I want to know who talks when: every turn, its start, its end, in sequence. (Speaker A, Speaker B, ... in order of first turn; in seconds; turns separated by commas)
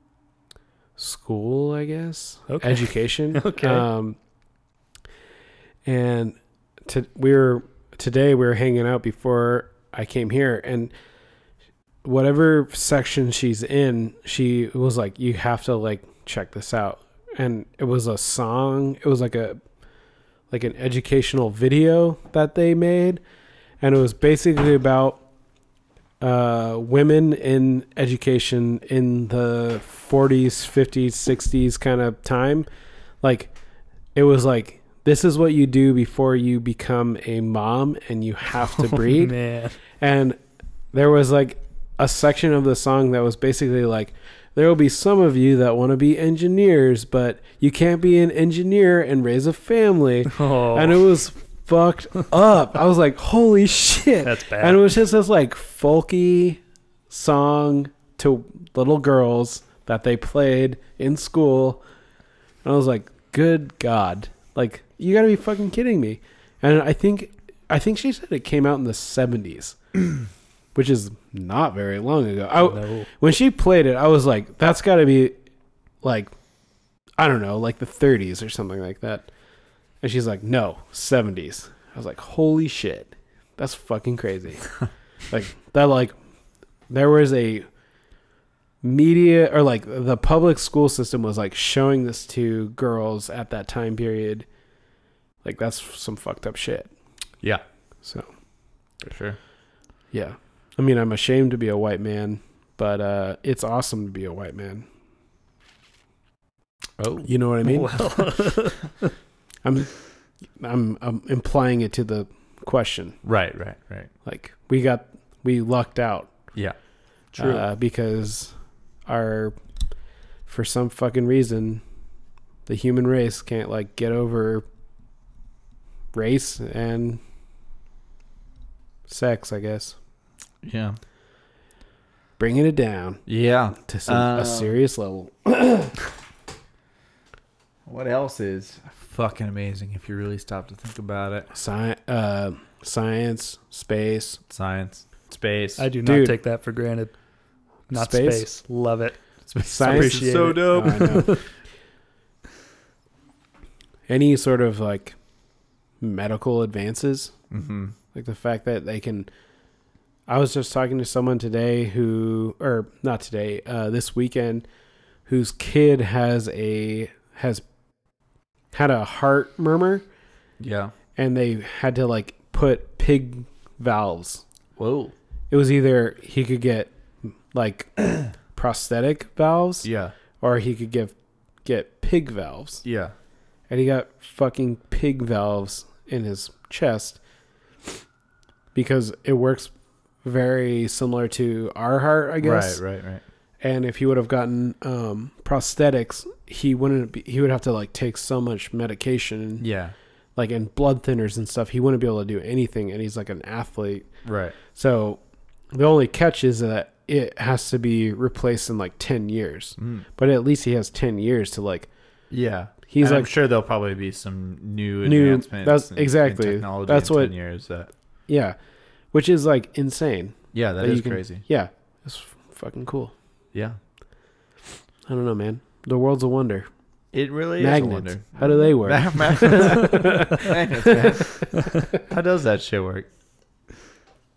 Speaker A: 1.0-4.2, Speaker B: 2.5-3.9, Speaker A: 5.8-10.9, Speaker A: 12.0-19.6, Speaker A: 20.5-23.2, Speaker A: 23.8-25.2, Speaker A: 26.2-32.7, Speaker A: 33.2-33.5, Speaker A: 34.1-39.3, Speaker B: 38.8-39.8, Speaker A: 40.0-40.4, Speaker A: 40.9-61.8, Speaker B: 50.3-51.0, Speaker B: 54.2-54.8, Speaker A: 62.6-70.2, Speaker A: 70.7-75.3, Speaker B: 72.6-73.1, Speaker A: 76.0-76.3, Speaker A: 77.2-79.3, Speaker A: 80.0-84.7, Speaker A: 85.3-86.1, Speaker A: 86.9-87.7, Speaker A: 88.8-94.5, Speaker A: 95.4-96.9, Speaker C: 99.0-99.4, Speaker A: 100.1-104.8, Speaker C: 107.0-107.3, Speaker A: 107.2-108.1, Speaker B: 107.6-109.1, Speaker A: 109.6-109.9, Speaker A: 110.6-113.2, Speaker C: 113.2-114.1, Speaker A: 114.2-116.3, Speaker B: 117.3-117.6, Speaker A: 117.4-118.5, Speaker A: 119.0-119.5, Speaker A: 120.5-121.8, Speaker A: 122.7-124.6, Speaker A: 126.1-127.2, Speaker A: 129.1-129.9, Speaker C: 130.6-131.0, Speaker A: 132.4-133.2, Speaker C: 133.3-134.8, Speaker A: 133.8-136.0, Speaker C: 137.8-141.5, Speaker A: 141.5-144.4, Speaker C: 144.5-145.8, Speaker B: 145.8-147.1, Speaker A: 146.0-146.4, Speaker B: 147.9-149.2, Speaker A: 147.9-148.5, Speaker C: 149.5-151.4, Speaker A: 149.6-151.4, Speaker B: 149.7-151.4, Speaker A: 154.1-155.2, Speaker A: 156.0-157.3, Speaker C: 157.5-157.9, Speaker A: 158.1-159.3, Speaker A: 160.3-164.6, Speaker A: 165.3-167.6, Speaker A: 168.7-170.0, Speaker C: 170.6-170.9, Speaker A: 171.2-174.4, Speaker C: 174.8-175.1, Speaker A: 175.5-179.9, Speaker C: 179.8-180.1, Speaker A: 180.4-181.1, Speaker A: 181.6-182.8, Speaker C: 182.8-183.1, Speaker A: 183.7-187.2, Speaker A: 188.7-189.7, Speaker A: 190.2-192.8, Speaker C: 192.4-193.2, Speaker A: 193.6-199.6, Speaker C: 199.6-199.9, Speaker A: 200.3-205.2, Speaker C: 204.2-204.5, Speaker A: 205.7-211.9, Speaker C: 209.8-210.0, Speaker C: 212.3-217.9, Speaker A: 212.9-213.3, Speaker A: 215.0-217.3, Speaker A: 218.3-218.5, Speaker A: 219.1-223.1, Speaker C: 220.5-221.4, Speaker A: 225.1-226.7, Speaker C: 227.1-233.1, Speaker A: 227.6-231.3